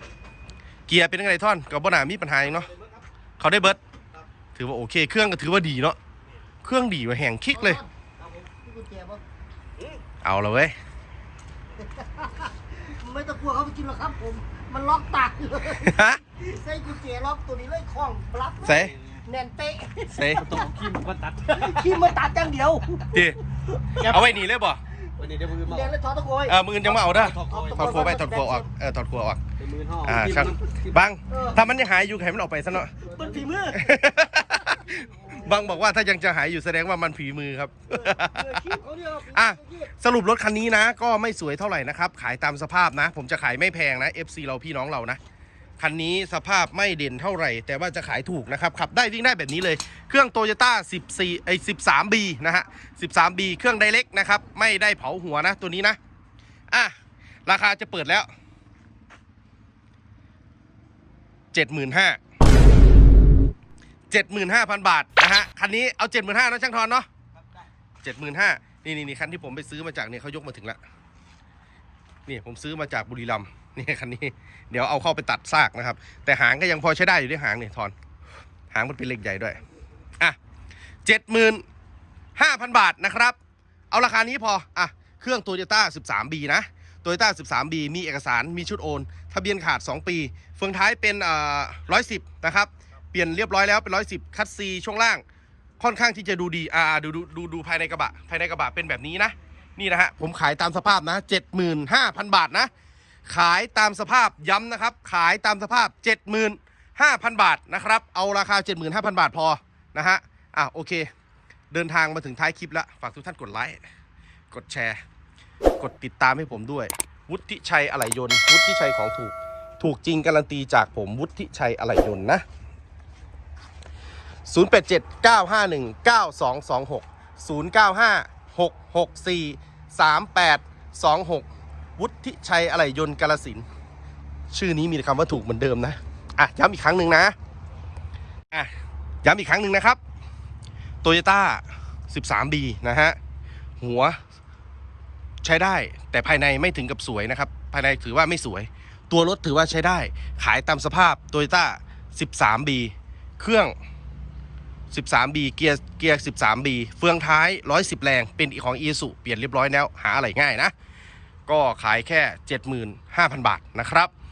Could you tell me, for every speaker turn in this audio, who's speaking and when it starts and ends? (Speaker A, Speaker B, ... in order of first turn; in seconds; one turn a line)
Speaker A: 0.9-2.7
Speaker A: 3.4-3.8
Speaker A: 4.5-6.0
Speaker A: 6.6-7.8
Speaker B: 7.6-9.2
Speaker A: 10.2-10.8
Speaker B: 11.9-20.9
Speaker A: 15.6-16.2
Speaker A: 18.6-19.0
Speaker A: 20.1-20.5
Speaker C: 20.4-21.6
Speaker B: 21.5-23.3
Speaker A: 23.1-23.4
Speaker A: 24.0-24.8
Speaker C: 25.2-25.8
Speaker B: 25.4-26.6
Speaker A: 26.5-29.4
Speaker C: 27.1-27.7
Speaker B: 27.5-28.6
Speaker C: 29.6-30.8
Speaker A: 30.0-33.0
Speaker B: 33.0-34.1
Speaker A: 33.7-38.7
Speaker B: 34.9-35.6
Speaker B: 38.0-39.6
Speaker A: 39.3-45.2
Speaker A: 45.8-56.0
Speaker A: 57.5-58.3
Speaker A: 61.5-62.2
Speaker A: 64.1-67.1
Speaker A: 68.0-70.8
Speaker A: 72.3-77.9
Speaker A: 78.7-79.6
Speaker A: 81.0-81.6
Speaker A: 82.4-83.4
Speaker A: 83.9-95.2
Speaker A: 95.8-102.7
Speaker A: 103.3-111.1
Speaker A: 111.7-113.8
Speaker A: 114.5-115.0
Speaker A: 115.8-122.4
Speaker A: 124.5-131.5
Speaker A: 132.0-133.7
Speaker A: 134.5-137.3
Speaker A: 139.2-140.0
Speaker A: 141.0-143.2
Speaker A: 143.8-144.2
Speaker A: 145.4-153.7
Speaker A: 154.9-160.7
Speaker A: 161.5-164.1